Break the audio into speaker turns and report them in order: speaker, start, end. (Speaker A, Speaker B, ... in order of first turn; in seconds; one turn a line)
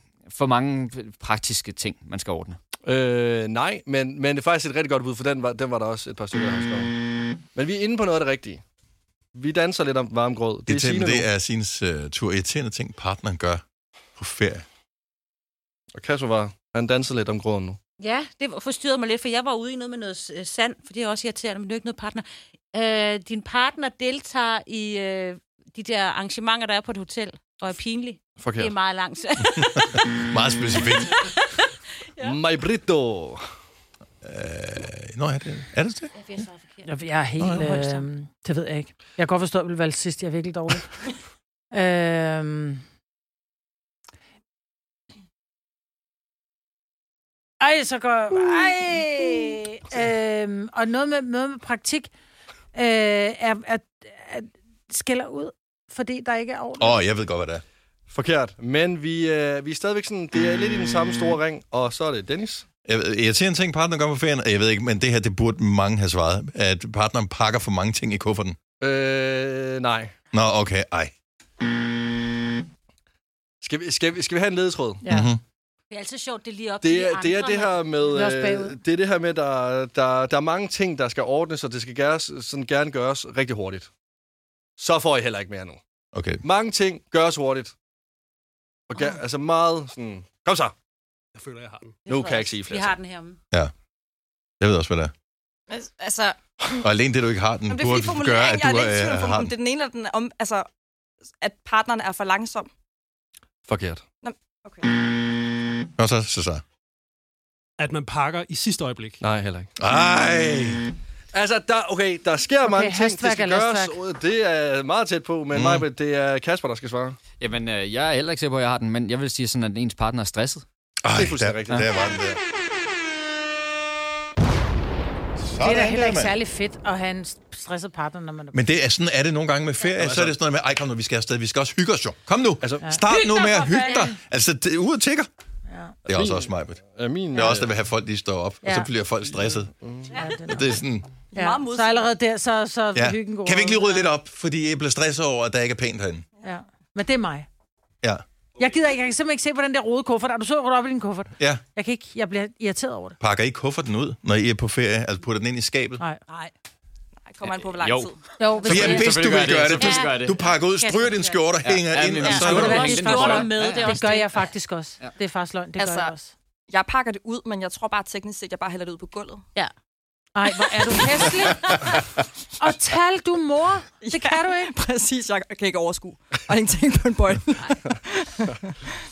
Speaker A: 0.3-2.6
Speaker B: 2.9-6.9
Speaker B: 7.5-8.6
Speaker B: 9.3-11.3
Speaker C: 10.7-13.6
Speaker C: 14.2-14.7
Speaker B: 15.9-17.8
Speaker D: 18.0-30.1
Speaker B: 28.4-28.7
Speaker C: 29.6-31.3
Speaker D: 31.2-32.4
Speaker B: 32.2-33.4
Speaker C: 34.2-36.1
Speaker D: 36.1-36.9
Speaker E: 36.9-41.0
Speaker C: 37.4-37.7
Speaker D: 37.5-38.0
Speaker E: 41.7-42.8
Speaker E: 47.6-52.1
Speaker E: 52.7-57.0
Speaker C: 56.8-57.6
Speaker B: 58.1-62.6
Speaker C: 62.9-68.6
Speaker B: 68.8-70.1
Speaker C: 70.3-71.1
Speaker B: 73.6-75.1
Speaker E: 75.0-75.3
Speaker C: 75.1-75.4
Speaker D: 75.9-78.1
Speaker B: 76.8-83.9
Speaker E: 78.1-78.8
Speaker B: 84.8-85.8
Speaker C: 86.1-86.4
Speaker B: 86.4-87.7
Speaker B: 88.9-90.7
Speaker F: 91.3-92.0
Speaker B: 92.1-93.0
Speaker D: 92.1-93.4
Speaker C: 94.6-95.1
Speaker G: 95.7-96.8
Speaker C: 96.8-99.5
Speaker G: 97.7-100.7
Speaker G: 101.4-102.7
Speaker B: 103.7-104.0
Speaker G: 104.2-104.9
Speaker C: 106.0-106.6
Speaker F: 107.8-109.2
Speaker B: 109.2-109.7
Speaker C: 109.8-110.8
Speaker B: 111.3-117.2
Speaker E: 112.6-114.0
Speaker C: 115.5-115.9
Speaker A: 117.4-120.7
Speaker C: 121.0-122.4
Speaker B: 121.1-121.9
Speaker C: 125.4-126.3
Speaker E: 125.6-128.6
Speaker C: 128.5-135.3
Speaker B: 130.0-130.3
Speaker B: 132.6-132.9
Speaker E: 132.8-133.1
Speaker D: 133.1-134.2
Speaker E: 135.7-136.0
Speaker C: 136.1-136.8
Speaker B: 136.1-137.7
Speaker C: 137.3-139.7
Speaker E: 138.6-138.9
Speaker B: 139.8-140.1
Speaker E: 140.1-140.8
Speaker C: 140.5-141.1
Speaker G: 141.3-142.1
Speaker E: 141.3-144.1
Speaker C: 142.9-146.3
Speaker E: 146.4-147.5
Speaker E: 148.6-153.2
Speaker C: 153.2-156.0
Speaker E: 156.0-156.5
Speaker G: 157.3-158.9
Speaker A: 157.5-160.4
Speaker E: 158.4-159.2
Speaker C: 158.7-163.2
Speaker D: 159.7-160.1
Speaker E: 160.8-161.4
Speaker A: 161.6-164.0
Speaker D: 162.2-164.4
Speaker E: 162.3-166.3
Speaker G: 165.8-166.1
Speaker G: 166.7-169.4
Speaker E: 170.3-174.7
Speaker G: 174.0-178.8